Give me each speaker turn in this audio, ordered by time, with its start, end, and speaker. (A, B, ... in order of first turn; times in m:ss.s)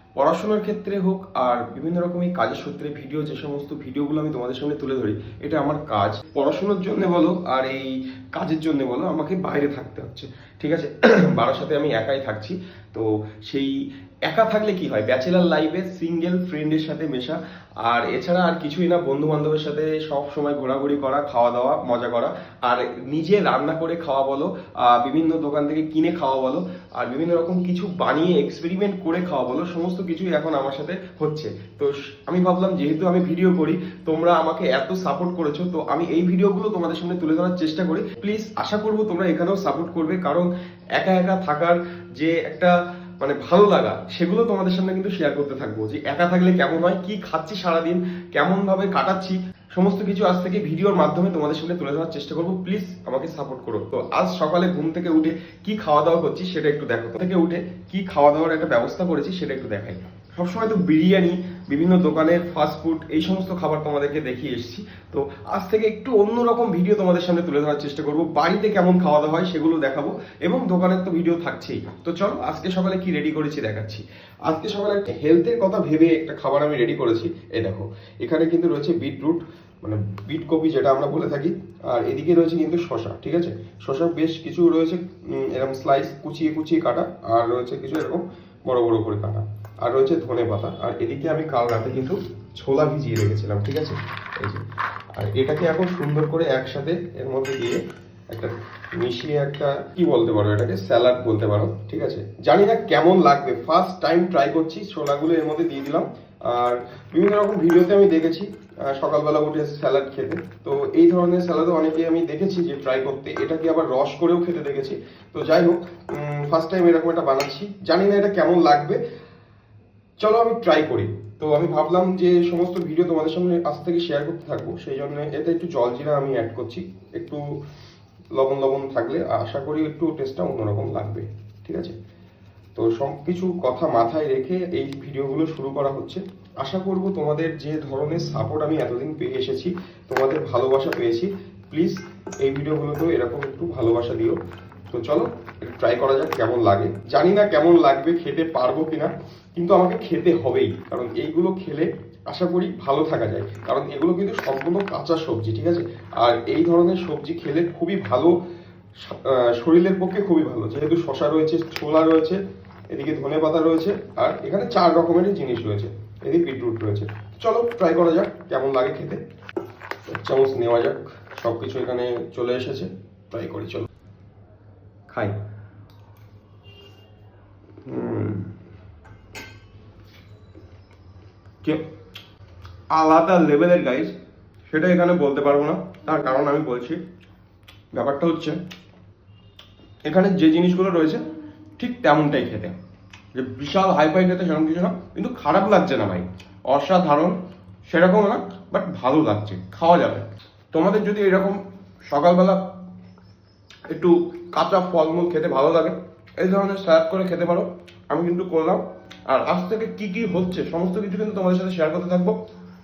0:00.2-1:34.6 A
1:35.1-1:59.0 A
2:00.2-2:07.6 A
2:08.3-2:12.0 A
2:12.8-2:24.4 A
2:24.9-2:38.4 A
2:39.0-2:42.4 A
2:42.9-2:49.2 A
2:50.1-2:53.9 A
2:55.1-2:55.4 A
2:57.8-2:58.5 A
3:02.9-3:04.1 A
3:04.7-3:07.0 A
3:07.9-3:08.6 A
3:10.0-3:11.2 A
3:11.8-3:12.8 A
3:13.3-3:22.8 A
3:23.9-3:32.4 A